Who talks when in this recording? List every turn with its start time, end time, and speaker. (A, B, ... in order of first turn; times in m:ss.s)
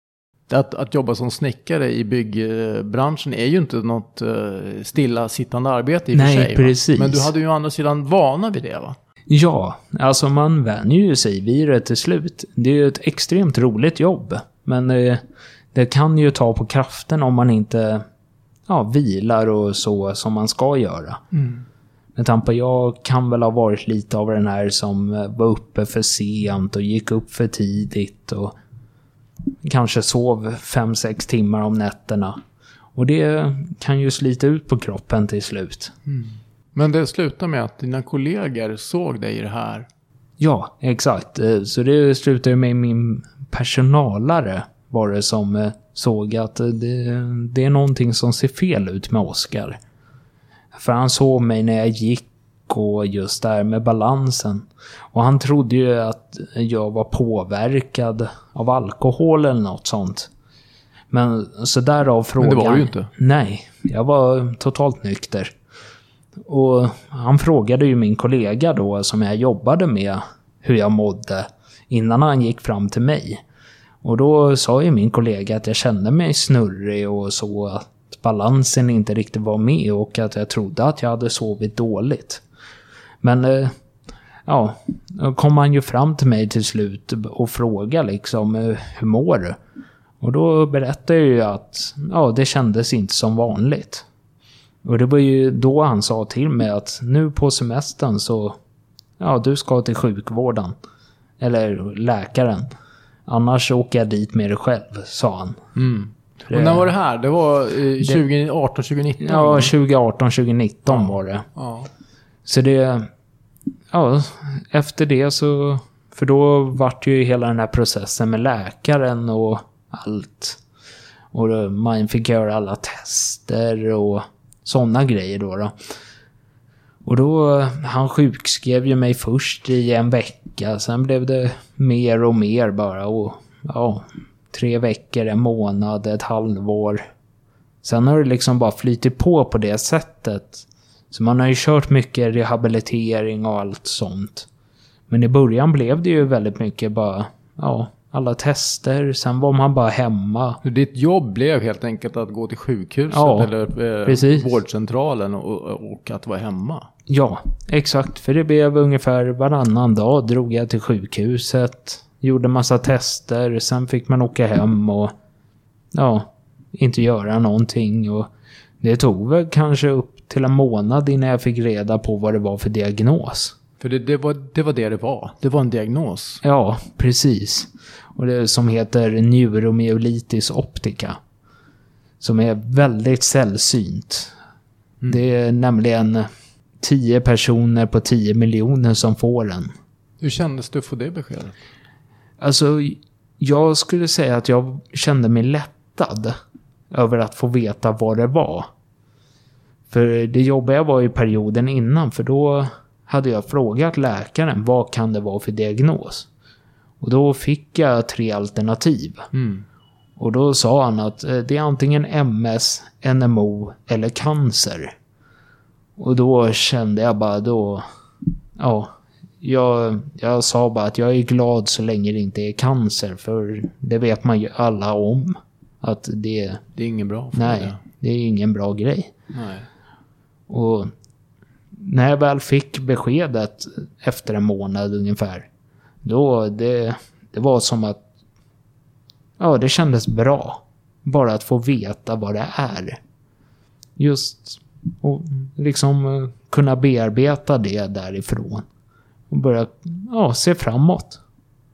0:00.5-0:09.0 A
0:06.1-0:07.3 B
0:09.3-0:15.2 B
0:15.7-0:18.0 B
0:18.7-0:21.2 B
0:21.3-0:21.6 A
0:22.2-0:28.5 B
0:29.6-0:32.4 B
0:32.9-0:35.9 B
0:36.1-0:39.9 A
0:40.4-0:49.8 B
0:50.7-1:00.3 B
1:01.1-1:05.5 B
1:02.4-1:03.1 A
1:06.4-1:13.4 B
1:14.0-1:22.4 B
1:23.2-1:23.7 B
1:24.4-1:29.6 B
1:30.2-1:34.0 B
1:34.8-1:38.6 B
1:39.2-1:40.8 B
1:41.4-1:42.7 B
1:43.3-1:45.6 B
1:45.7-1:49.7 A
1:46.5-1:46.9 B
1:49.2-1:51.5 B
1:50.9-1:51.9 A
1:52.4-1:53.1 B
1:53.9-2:00.6 B
2:01.3-2:05.7 B
2:07.0-2:17.0 B
2:17.8-2:24.5 B
2:25.1-2:30.6 B
2:30.6-2:36.9 A
2:33.1-2:33.5 B
2:34.0-2:34.5 B
2:37.1-2:45.1 B
2:45.9-2:48.3 B
2:48.8-2:53.5 B
2:53.8-2:56.4 A
2:56.4-3:01.2 B
3:02.2-3:04.3 B
3:05.0-3:06.3 B
3:06.8-3:09.7 B
3:10.2-3:11.6 A
3:12.4-3:16.3 B
3:16.9-3:18.7 B
3:19.9-3:26.3 B
3:27.0-3:29.2 B
3:29.3-3:29.6 A
3:30.2-3:34.9 B
3:36.0-3:37.9 B
3:38.6-3:46.6 B
3:46.7-3:47.8 A
3:47.3-3:49.1 B
3:49.3-3:49.7 A
3:50.5-3:50.9 B
3:51.8-3:55.5 B
3:56.0-3:58.0 B
3:59.4-4:03.0 B
4:04.0-4:08.6 B
4:09.3-4:11.2 B